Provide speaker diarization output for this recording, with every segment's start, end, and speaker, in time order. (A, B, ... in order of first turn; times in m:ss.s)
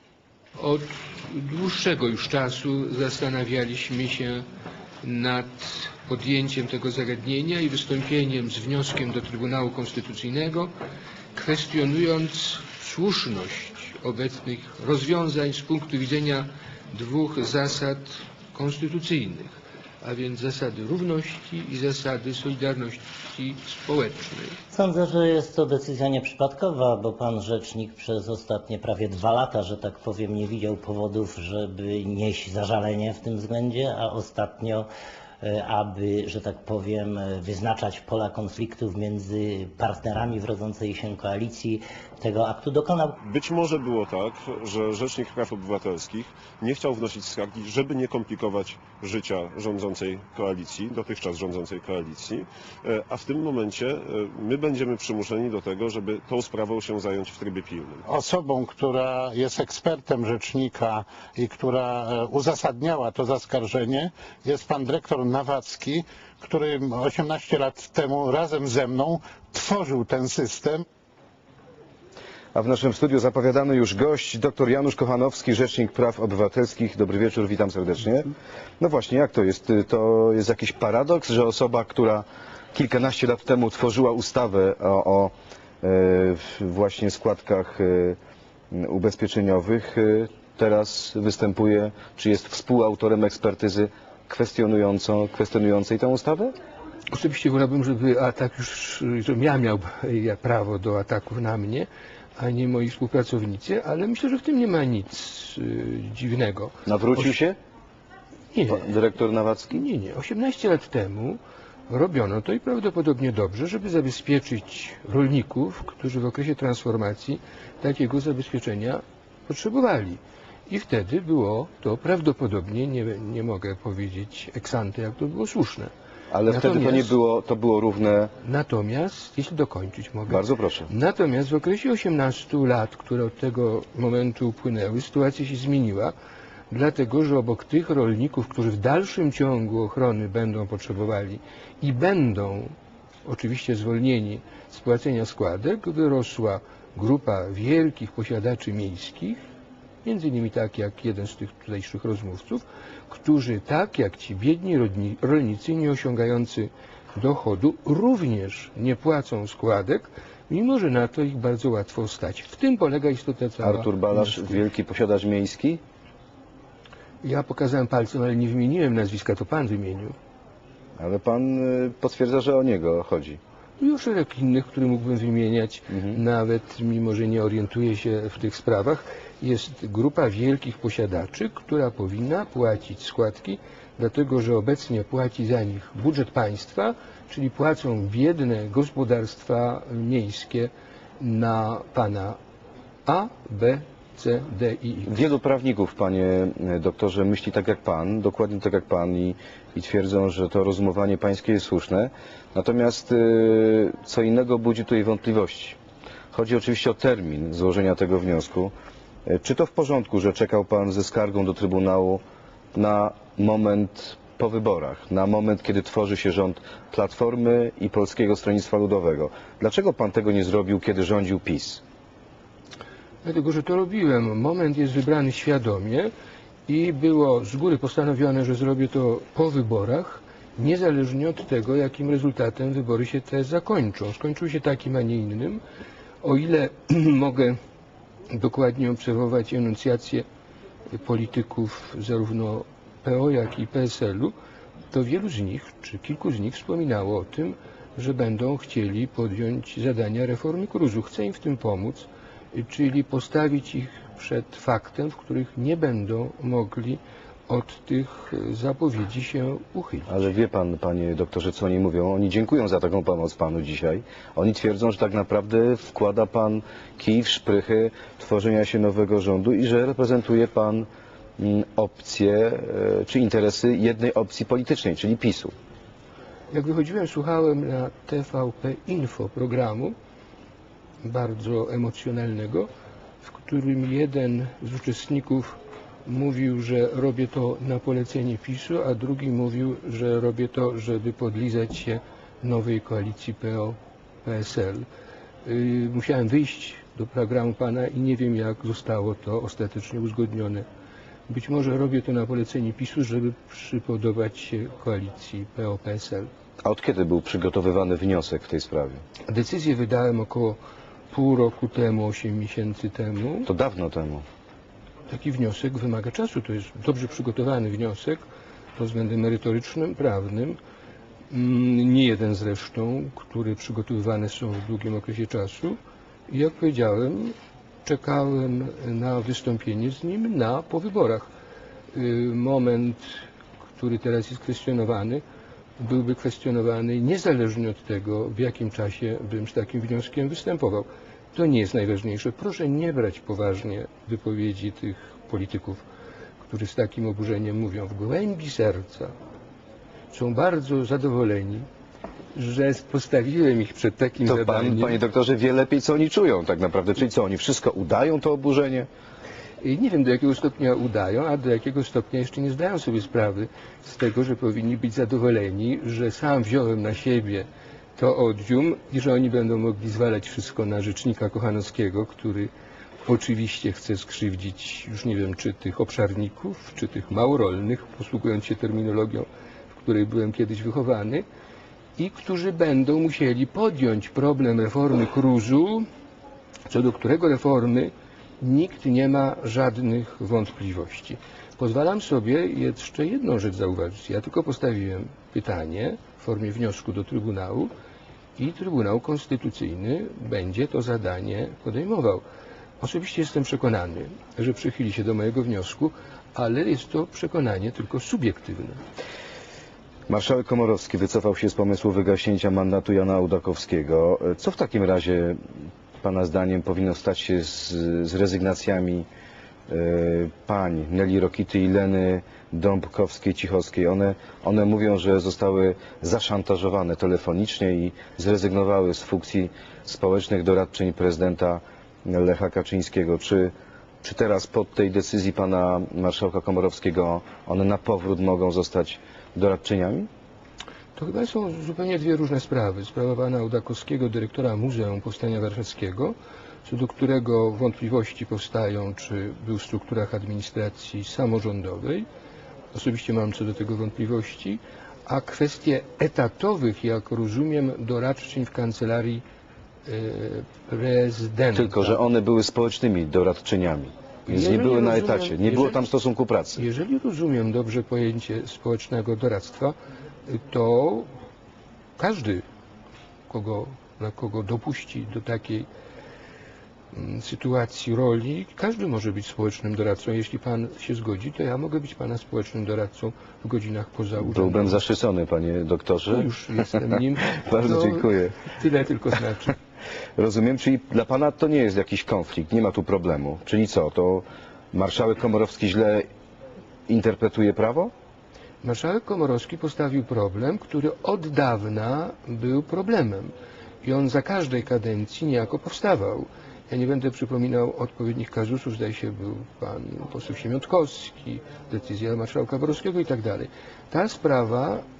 0:00.6-0:04.4 A
0:05.0-0:10.7 A
0:11.3-0:24.6 A
0:24.7-0:34.9 B
0:35.4-0:43.1 B
0:43.2-0:58.0 C
0:58.1-1:10.8 D
1:12.5-1:28.2 E
1:28.7-1:36.5 E
1:37.1-1:47.4 A
1:46.8-1:47.6 E
1:48.5-1:48.8 A
1:48.7-1:49.8 E
1:49.7-2:05.9 A
2:06.3-2:08.3 E
2:06.5-2:07.1 A
2:08.4-2:16.1 A
2:10.3-2:10.9 E
2:16.7-2:22.7 A
2:23.2-2:29.4 A
2:30.0-2:44.6 A
2:43.6-2:45.8 E
2:47.2-2:50.1 A
2:51.0-2:53.4 E
2:53.8-3:12.4 A
2:55.9-2:56.2 E
3:13.0-3:15.1 A
3:15.1-3:25.8 E
3:26.3-3:28.7 E
3:29.2-3:32.2 E
3:32.7-3:41.8 E
3:43.2-3:46.1 A
3:46.7-3:55.6 A
3:56.2-3:57.6 A
3:58.3-4:00.2 A
4:00.9-4:04.3 A
4:04.9-4:20.2 A
4:20.1-4:30.9 E
4:31.4-4:35.5 E
4:36.5-4:39.9 A
4:41.0-4:42.7 A
4:43.2-4:54.8 A
4:55.4-5:00.6 A
5:01.3-5:06.3 A
5:06.6-5:09.0 E
5:09.3-5:10.6 A
5:11.1-5:13.5 A
5:13.4-5:14.2 E
5:15.1-5:18.2 A
5:18.8-5:20.6 A
5:21.3-5:25.8 A
5:26.3-5:31.3 A
5:31.9-5:33.1 A
5:33.8-5:35.2 A
5:35.8-5:45.8 A
5:46.4-5:49.1 A
5:50.1-5:51.6 A
5:52.3-5:55.0 A
5:54.2-5:58.9 E
5:59.6-6:12.5 A
6:13.0-6:21.2 A
6:22.0-6:25.8 A
6:26.7-6:37.7 A
6:38.4-6:42.2 A
6:42.8-6:48.8 A
6:50.1-6:55.4 E
6:56.0-6:59.1 E
6:59.7-7:20.1 E
7:21.0-7:32.0 A
7:32.7-7:39.2 A
7:39.8-7:42.0 A
7:41.5-7:46.6 E
7:44.3-7:45.8 A
7:46.6-7:49.7 A
7:50.3-7:51.1 A
7:52.0-7:52.4 A
7:53.3-7:55.7 A
7:56.9-8:04.8 A
8:04.2-8:08.3 E
8:06.1-8:09.5 A
8:10.2-8:16.0 E
8:16.9-8:17.9 E
8:18.6-8:23.3 A
8:23.8-8:34.8 A